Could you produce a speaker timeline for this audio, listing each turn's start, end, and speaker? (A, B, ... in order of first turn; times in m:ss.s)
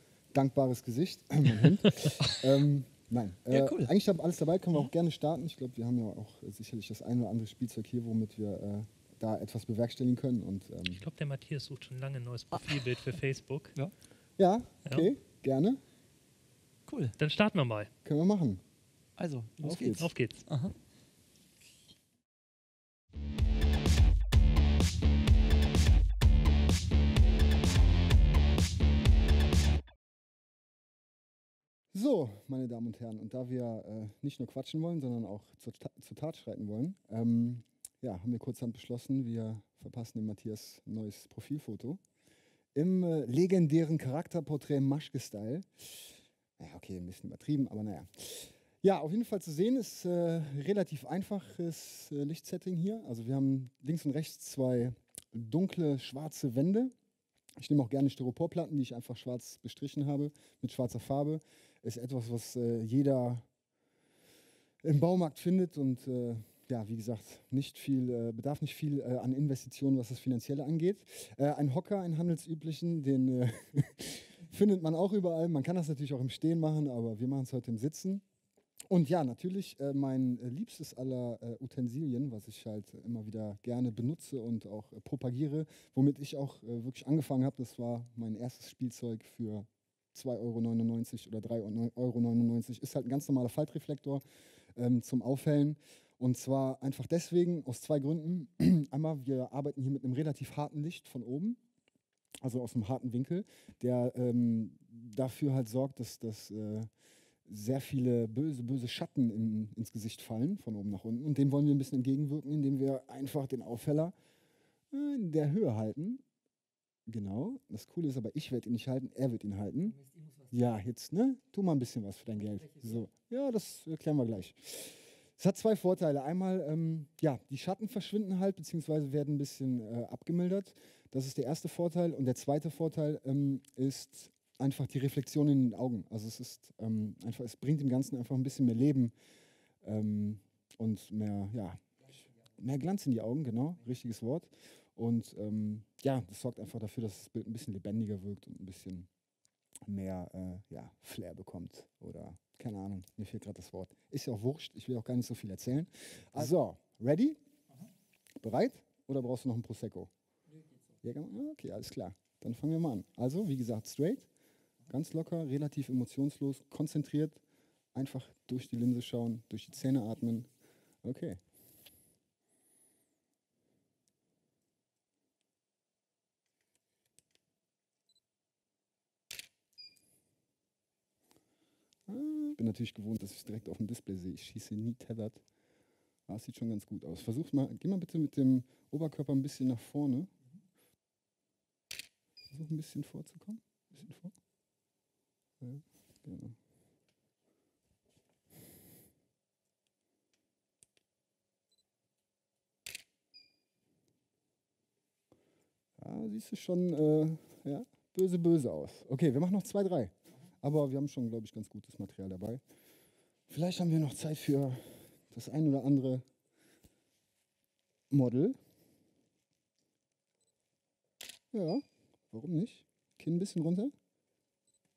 0:00.3-0:11.0 A
0:03.5-0:03.9 B
0:10.9-0:13.8 C
0:12.5-0:12.8 B
0:14.4-0:15.8 A
0:14.8-0:15.1 C
0:16.9-0:17.1 B
0:17.2-0:17.9 C
0:18.0-0:18.6 A
0:19.2-0:20.7 B
0:19.6-0:20.1 A
0:20.0-0:20.4 C
0:31.9-0:42.0 A
0:42.7-0:56.9 A
0:57.6-1:03.5 A
1:04.8-1:18.2 A
1:18.9-1:34.2 A
1:34.7-1:41.6 A
1:42.4-1:46.9 A
1:47.4-1:54.1 A
1:54.9-1:56.2 A
1:57.1-2:19.1 A
2:19.8-2:29.1 A
2:29.8-2:37.4 A
2:38.4-2:40.1 A
2:41.0-2:44.3 A
2:44.9-2:47.4 A
2:47.9-2:50.5 A
2:51.0-2:51.4 A
3:02.1-3:05.4 A
3:06.3-3:10.3 A
3:12.5-3:14.3 A
3:15.6-3:16.6 A
3:26.0-3:32.6 A
3:33.5-3:36.2 A
3:38.1-3:38.6 A
3:41.5-3:43.9 A